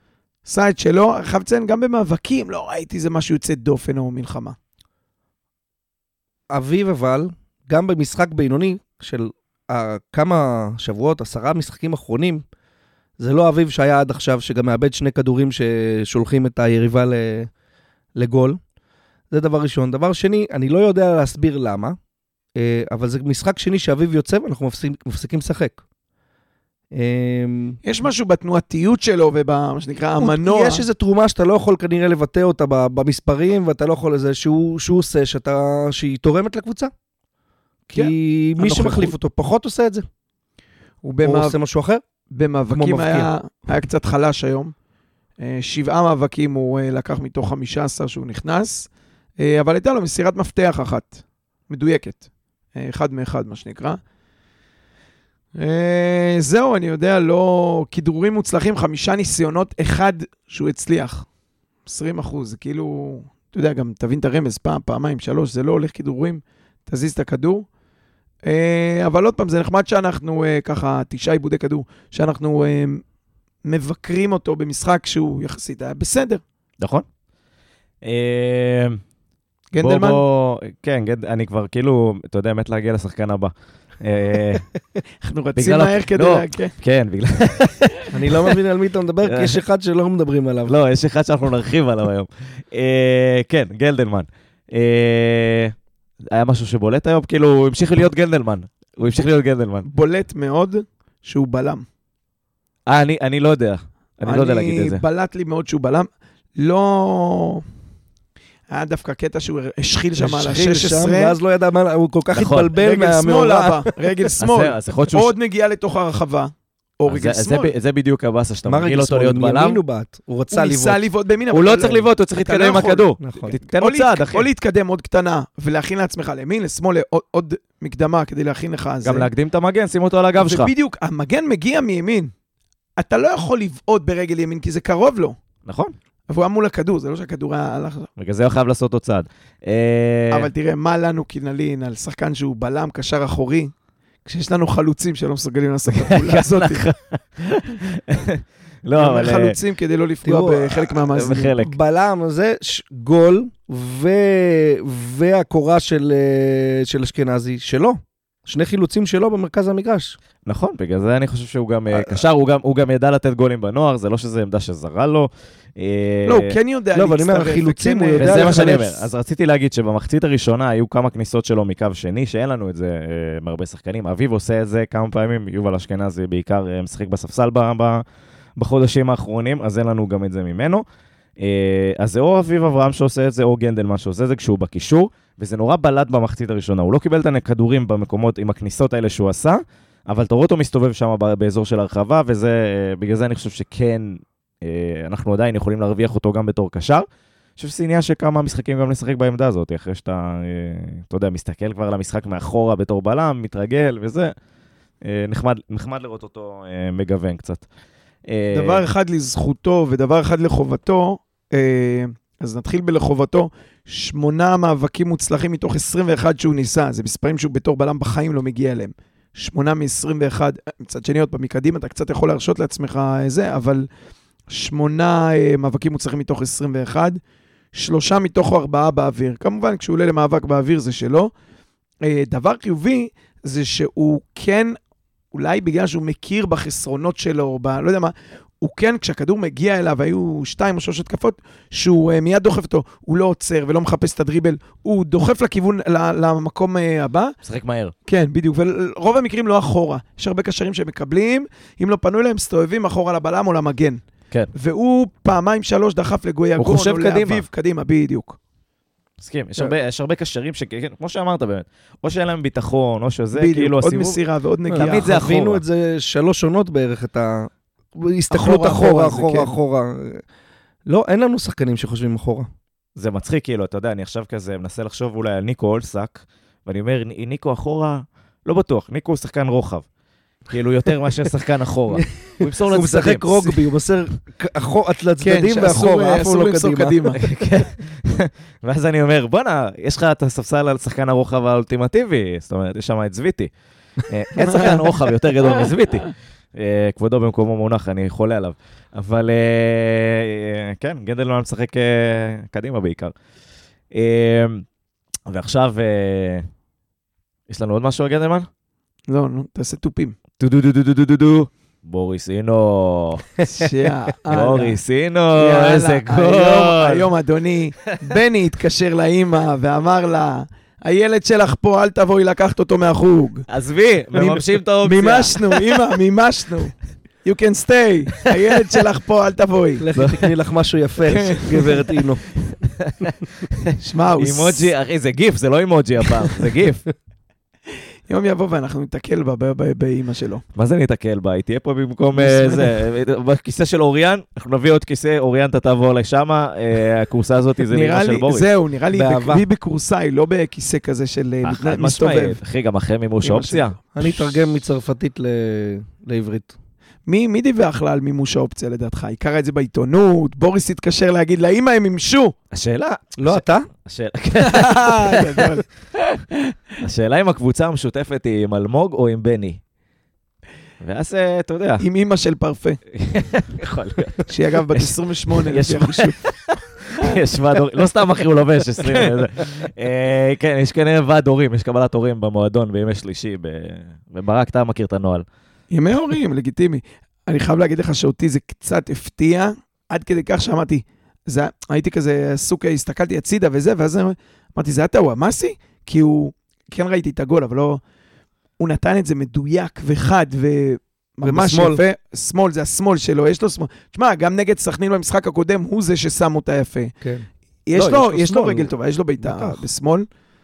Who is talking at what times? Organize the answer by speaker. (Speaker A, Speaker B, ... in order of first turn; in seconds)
Speaker A: 0.5-4.5, 27.8-30.9, 37.9-39.1, 41.0-41.5, 42.3-44.7, 45.4-54.0, 55.6-61.2, 61.9-67.7, 68.5-73.0, 73.6-76.4, 79.7-80.2, 85.2-86.7, 99.8-101.8, 104.2-107.6, 108.7-111.3, 112.8-117.7, 120.5-129.3, 130.4-132.3, 133.0-135.3, 136.3-138.1, 140.3-143.7, 144.2-146.8, 148.9-151.6, 166.2-169.0, 208.5-223.8, 224.5-227.2, 227.7-231.3, 232.0-234.8, 235.3-247.3, 248.1-254.0, 254.5-258.4, 263.3-265.2, 268.3-269.5, 285.2-287.2, 294.4-294.8, 309.1-310.1, 313.4-314.8, 315.4-323.4, 324.1-326.7, 327.2-329.8, 331.1-331.8, 333.8-334.7, 338.1-340.4, 342.1-342.7, 347.7-352.4, 353.2-353.7, 357.1-362.3, 364.4-365.7, 371.8-372.8, 374.3-376.2, 385.7-397.8, 398.6-406.9, 407.7-410.1
Speaker B: 6.5-12.4, 13.2-17.5, 18.1-18.6, 19.3-21.9, 22.6-25.8, 26.9-27.8, 30.2-36.9, 37.9-40.0, 41.2-42.0, 42.7-43.3, 88.1-90.7, 110.2-113.9, 118.7-121.0, 123.2-123.5, 150.2-150.8, 151.6-160.2, 161.9-162.2, 166.9-168.8, 264.7-270.2, 270.9-272.5, 281.9-286.9, 329.8-332.2, 348.9-349.4, 353.9-356.5, 363.2-363.7, 401.2-401.8, 407.0-409.6
Speaker C: 76.8-77.0, 78.0-79.0, 79.8-84.7, 85.6-88.5, 89.2-89.6, 90.7-95.7, 96.3-99.9, 102.9-105.0, 112.3-112.7, 114.4-115.3, 117.1-119.8, 121.5-124.5, 129.0-130.7, 135.7-135.9, 138.2-140.5, 145.9-149.6, 151.1-151.7, 160.4-166.5, 168.2-178.0, 178.6-180.8, 181.4-197.0, 197.6-204.3, 205.0-207.6, 208.3-208.8, 247.4-247.9, 256.6-257.4, 259.2-264.2, 264.7-265.6, 272.9-279.8, 280.5-283.6, 287.2-293.5, 294.0-303.1, 303.9-304.6, 305.3-306.5, 307.5-308.5, 310.4-313.6, 314.3-317.1, 323.5-325.9, 329.9-330.3, 331.6-336.9, 340.5-348.4, 351.4-353.8, 362.5-365.6, 366.8-369.6, 370.8-371.8, 372.9-385.2